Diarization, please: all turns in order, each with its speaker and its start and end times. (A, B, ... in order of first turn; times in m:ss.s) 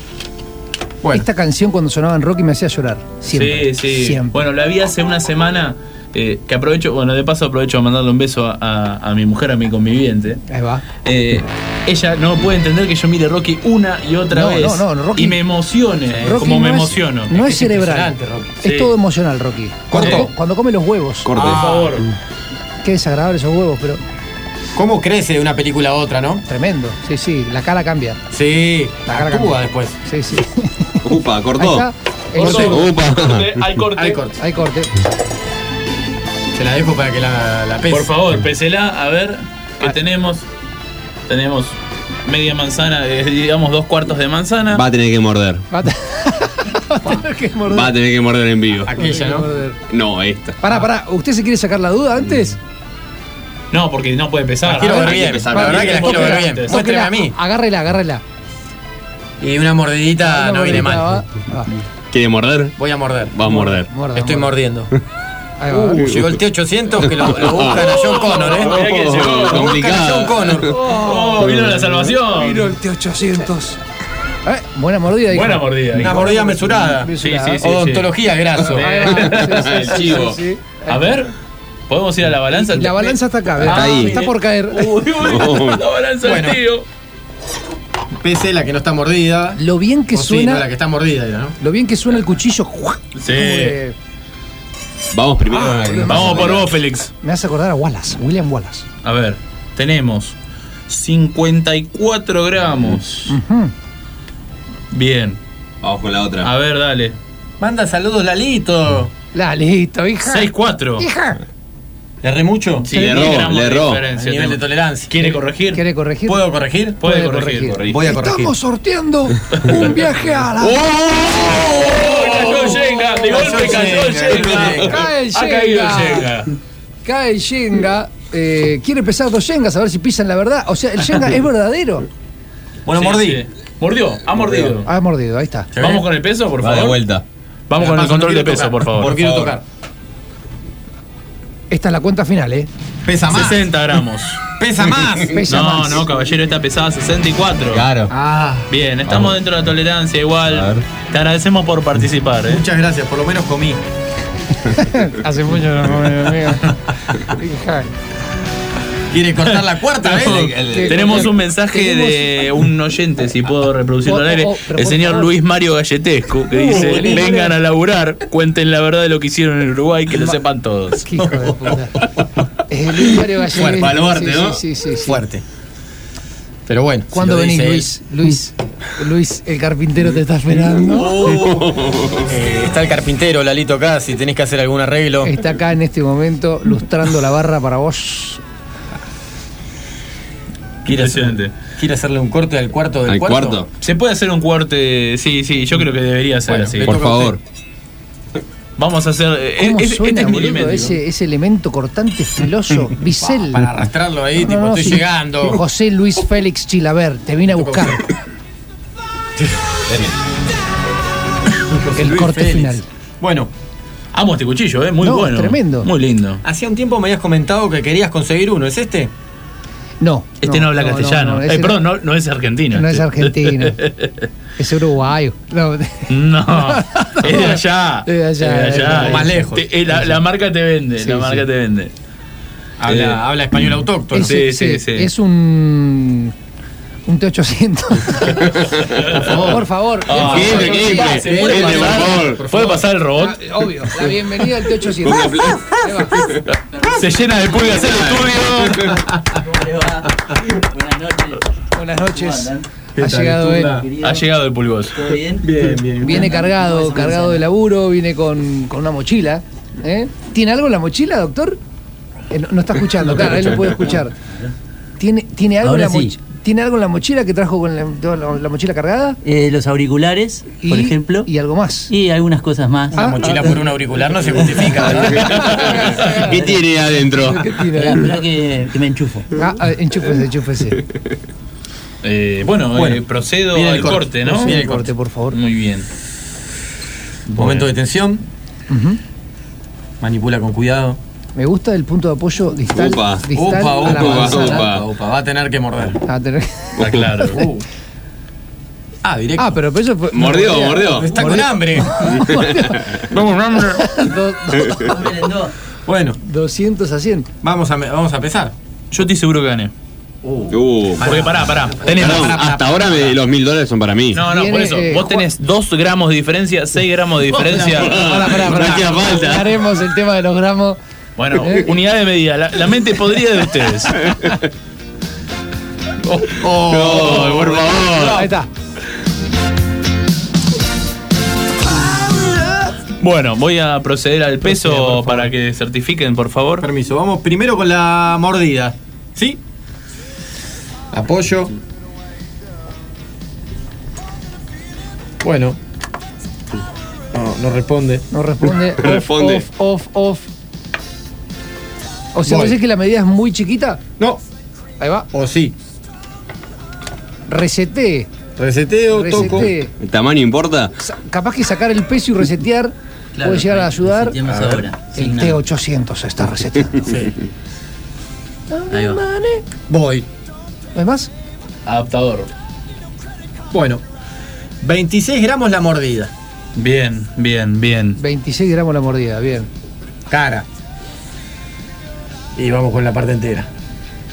0:01.1-0:04.4 A
0:03.3-0:10.4 B
0:10.5-0:10.8 A
0:11.0-0:17.5 B
0:14.3-0:15.4 A
0:16.1-0:16.5 C
0:16.2-0:21.3 A
0:17.4-0:18.5 C
0:18.6-0:18.9 B
0:19.9-0:20.3 C
0:20.0-0:20.3 B
0:21.3-0:21.7 D
0:21.4-0:22.0 C
0:21.4-0:22.1 B
0:22.8-0:24.0 A
0:24.7-0:26.4 C
0:26.5-0:28.2 A
0:28.3-0:30.0 C
0:29.1-0:31.0 A
0:31.0-0:31.9 D
0:31.6-0:32.8 A
0:32.4-0:34.2 B
0:32.4-0:33.6 D
0:33.9-0:34.4 C
0:34.4-0:34.9 A
0:36.5-0:38.1 C
0:37.9-0:40.4 B
0:41.3-0:41.7 B
0:42.3-0:44.8 B
0:44.7-0:45.6 D
0:45.7-0:47.9 A
0:47.7-0:48.9 D
0:48.9-0:49.5 C
0:49.0-0:49.8 A
0:49.9-0:50.6 D
0:50.6-0:52.6 A
0:53.7-0:56.7 B
0:54.6-0:57.4 C
0:54.7-0:58.2 A
0:55.1-0:56.2 D
0:59.4-1:01.2 C
1:00.2-1:01.7 A
1:02.1-1:02.7 D
1:02.8-1:03.4 C
1:03.3-1:03.9 D
1:03.4-1:04.6 A
1:04.2-1:04.9 C
1:05.6-1:06.1 A
1:05.7-1:10.7 C
1:07.8-1:09.8 B
1:08.7-1:10.7 D
1:10.7-1:13.8 A
1:10.9-1:12.7 B
1:14.4-1:17.6 A
1:15.3-1:16.2 B
1:16.0-1:19.0 C
1:17.2-1:20.0 B
1:18.7-1:21.1 A
1:19.5-1:20.4 D
1:20.9-1:21.3 B
1:21.9-1:26.8 B
1:22.5-1:24.9 A
1:23.6-1:24.2 D
1:25.2-1:25.8 D
1:26.2-1:26.6 C
1:28.2-1:29.6 C
1:29.6-1:30.7 A
1:30.1-1:31.6 C
1:31.6-1:34.0 A
1:33.2-1:33.8 B
1:35.1-1:36.6 D
1:35.5-1:36.6 A
1:36.1-1:37.1 B
1:37.2-1:38.8 A
1:39.0-1:40.4 B
1:40.9-1:43.3 B
1:43.3-1:43.7 A
1:44.9-1:45.4 B
1:45.8-1:46.5 D
1:46.4-1:47.2 B
1:47.6-1:49.1 C
1:49.3-1:51.4 A
1:50.2-1:51.1 B
1:52.2-1:53.1 C
1:52.9-1:55.8 B
1:52.9-1:54.0 D
1:54.1-1:55.1 C
1:55.7-1:56.4 A
1:56.3-1:57.0 C
1:57.0-2:00.9 A
1:57.0-1:58.0 B
1:57.9-1:58.5 C
2:00.7-2:01.7 D
2:01.4-2:05.0 C
2:01.6-2:06.5 B
2:04.8-2:06.3 A
2:07.0-2:12.1 A
2:12.9-2:13.4 C
2:12.9-2:14.9 B
2:14.3-2:14.7 C
2:14.8-2:15.7 A
2:15.7-2:16.0 C
2:15.8-2:17.0 B
2:16.6-2:17.2 D
2:17.7-2:19.2 B
2:17.8-2:19.6 C
2:19.2-2:19.5 D
2:21.7-2:22.7 A
2:23.0-2:23.7 C
2:23.3-2:24.4 B
2:24.6-2:25.4 C
2:25.3-2:26.1 A
2:25.5-2:27.8 B
2:27.7-2:28.1 D
2:28.1-2:28.7 C
2:28.7-2:32.6 B
2:30.5-2:30.8 D
2:32.4-2:33.8 C
2:34.7-2:37.9 A
2:39.1-2:40.5 C
2:39.5-2:51.1 B
2:40.3-2:40.9 D
2:40.7-2:42.4 A
2:44.1-2:45.3 A
2:46.6-2:47.5 A
2:46.7-2:47.3 C
2:51.1-2:52.0 A
2:52.7-2:55.2 A
2:53.5-2:54.2 C
2:53.8-2:54.6 D
2:55.0-2:55.4 C
2:56.7-2:57.9 C
2:57.1-3:01.4 A
3:01.2-3:02.3 D
3:01.3-3:01.6 C
3:02.3-3:05.4 C
3:05.2-3:08.4 A
3:10.8-3:13.6 C
3:10.9-3:11.5 B
3:13.1-3:13.7 D
3:13.8-3:17.0 B
3:16.5-3:17.4 C
3:16.8-3:17.4 D
3:18.8-3:21.0 B
3:19.6-3:23.7 A
3:23.2-3:25.6 C
3:24.4-3:28.1 A
3:27.5-3:28.0 C
3:29.4-3:30.1 C
3:31.7-3:33.5 C
3:32.0-3:32.8 A
3:34.1-3:36.4 B
3:35.0-3:35.9 A
3:36.4-3:39.1 C
3:40.0-3:41.8 A
3:40.4-3:44.1 B
3:42.7-3:43.8 A
3:44.6-3:49.4 A
3:46.1-3:51.9 B
3:48.9-3:49.7 C
3:51.0-3:51.4 A
3:52.8-3:54.4 C
3:52.9-3:53.2 B
3:54.1-3:55.1 B
3:54.1-3:56.4 A
3:57.1-3:58.6 A
3:58.9-3:59.4 B
3:59.1-3:59.6 C
3:59.3-4:01.1 A
4:00.1-4:03.4 B
4:00.2-4:02.4 D
4:00.4-4:02.8 C
4:03.2-4:06.4 A
4:05.0-4:06.2 D
4:06.7-4:08.0 E
4:07.0-4:09.0 B
4:07.8-4:08.5 D
4:09.3-4:11.4 E
4:11.7-4:13.8 A
4:12.0-4:12.6 E
4:13.0-4:13.9 C
4:13.6-4:14.3 E
4:14.0-4:15.0 B
4:14.9-4:17.5 E
4:15.4-4:16.3 C
4:16.0-4:21.6 A
4:22.3-4:24.1 A
4:25.0-4:29.2 A
4:25.6-4:26.2 E
4:29.2-4:31.3 E
4:30.6-4:31.9 A
4:31.9-4:33.3 E
4:32.9-4:35.2 C
4:32.9-4:33.6 A
4:34.8-4:36.6 A
4:36.0-4:37.6 D
4:37.1-4:38.1 A
4:37.7-4:39.3 E
4:39.4-4:40.8 A
4:42.0-4:44.6 B
4:42.7-4:44.9 C
4:44.3-4:45.4 A
4:45.3-4:45.9 B
4:47.3-4:47.7 B
4:47.4-4:48.2 C
4:48.7-4:49.0 A
4:50.0-4:51.0 C
4:51.4-4:54.7 A
4:52.7-4:53.3 D
4:53.3-4:56.0 C
4:53.8-4:54.8 D
4:56.0-4:56.8 A
4:56.8-4:57.4 B
4:57.3-4:57.6 C
4:59.0-4:59.6 C
4:59.4-5:03.0 A
5:00.1-5:01.1 D
5:00.8-5:02.0 C
5:02.3-5:02.8 D
5:03.6-5:05.0 A
5:04.8-5:05.5 E
5:05.9-5:06.2 C
5:06.2-5:07.3 A
5:07.4-5:08.6 C
5:08.9-5:09.7 B
5:10.2-5:13.2 C
5:10.5-5:11.1 D
5:11.0-5:12.4 B
5:11.9-5:14.2 D
5:14.1-5:18.0 B
5:14.2-5:15.3 A
5:17.3-5:18.0 C
5:17.9-5:20.8 A
5:18.0-5:19.6 D
5:21.2-5:24.1 B
5:21.4-5:21.7 A
5:26.3-5:28.2 C
5:26.7-5:28.2 D
5:27.0-5:27.6 B
5:28.1-5:28.5 A
5:33.0-5:36.7 B
5:34.4-5:35.3 C
5:36.6-5:39.4 C
5:40.9-5:41.5 C
5:45.2-5:45.6 C
5:47.1-5:48.0 C
5:48.1-5:50.3 A
5:48.8-5:49.4 D
5:52.1-5:53.8 A
5:52.3-5:52.6 C
5:54.8-5:55.1 A
5:55.1-5:55.5 C
5:57.3-5:58.1 A
5:58.4-5:59.5 C
5:58.9-5:59.7 A
5:59.8-6:00.7 D
6:00.8-6:04.2 A
6:03.2-6:05.4 E
6:04.2-6:04.6 C
6:04.9-6:06.9 A
6:08.5-6:09.4 A
6:08.7-6:09.0 E
6:09.7-6:10.1 C
6:10.7-6:11.1 A
6:11.7-6:12.3 B
6:13.5-6:13.8 C
6:14.6-6:16.1 C
6:16.6-6:18.0 B
6:18.0-6:19.5 A
6:20.1-6:20.4 C
6:22.4-6:23.5 C